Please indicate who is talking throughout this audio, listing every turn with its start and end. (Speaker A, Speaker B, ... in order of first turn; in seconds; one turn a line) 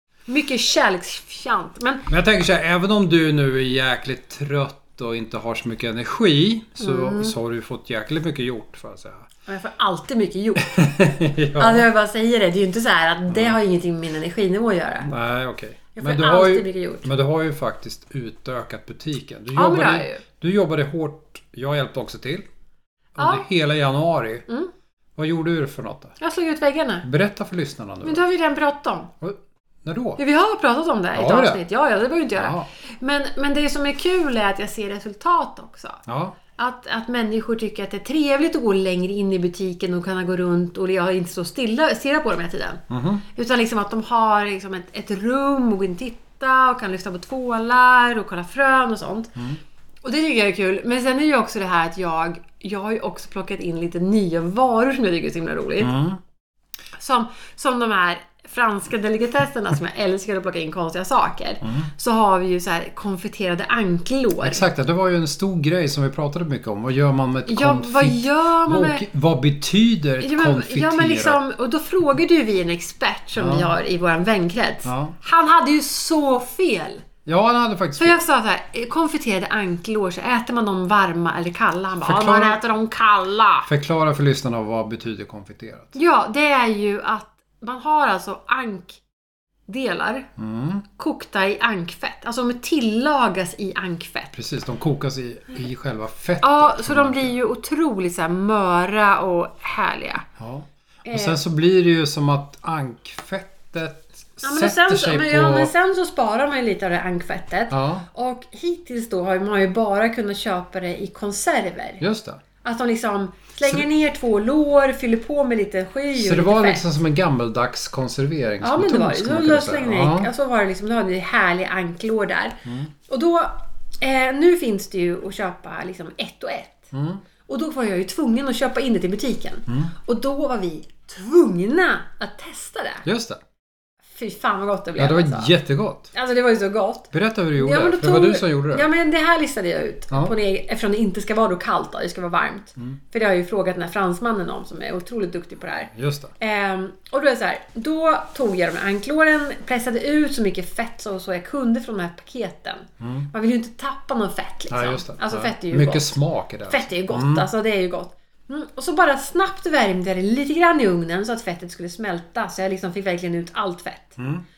Speaker A: 0.3-2.1
Speaker B: 2.1-9.3
Speaker A: 6.8-7.3
Speaker A: 9.5-10.8
Speaker B: 10.6-11.9
Speaker A: 11.6-15.1
Speaker B: 13.3-13.6
Speaker B: 15.1-22.4
Speaker A: 16.0-17.1
Speaker A: 19.5-20.2
Speaker B: 23.2-24.5
Speaker A: 23.2-23.4
Speaker B: 25.2-26.1
Speaker A: 26.2-27.1
Speaker B: 27.0-28.2
Speaker A: 28.0-29.1
Speaker B: 29.2-30.2
Speaker A: 30.2-36.0
Speaker B: 31.1-31.6
Speaker B: 32.4-32.7
Speaker B: 36.1-36.4
Speaker A: 36.5-49.4
Speaker B: 42.9-43.2
Speaker A: 50.0-55.9
Speaker B: 55.8-56.2
Speaker A: 57.0-64.6
Speaker B: 61.6-61.9
Speaker B: 64.4-71.4
Speaker A: 67.5-69.0
Speaker A: 70.2-77.0
Speaker B: 73.4-73.8
Speaker B: 74.8-75.2
Speaker B: 77.3-78.2
Speaker A: 78.0-83.7
Speaker B: 82.0-82.6
Speaker B: 83.7-86.0
Speaker A: 86.0-89.0
Speaker A: 89.7-90.3
Speaker B: 90.4-90.9
Speaker A: 91.0-94.3
Speaker B: 94.3-97.3
Speaker A: 96.4-100.3
Speaker B: 100.4-105.7
Speaker A: 101.1-101.4
Speaker A: 104.4-112.0
Speaker B: 107.7-108.1
Speaker B: 112.0-112.4
Speaker A: 112.6-116.8
Speaker B: 113.6-113.9
Speaker B: 116.1-120.3
Speaker A: 118.6-126.9
Speaker B: 122.7-122.9
Speaker B: 126.9-127.2
Speaker A: 127.5-133.1
Speaker B: 129.7-129.9
Speaker B: 133.1-133.4
Speaker A: 134.1-135.5
Speaker B: 135.0-136.1
Speaker A: 136.1-156.2
Speaker B: 137.1-138.9
Speaker B: 145.9-146.3
Speaker B: 153.0-153.3
Speaker B: 154.7-157.5
Speaker A: 156.7-164.2
Speaker B: 164.2-164.4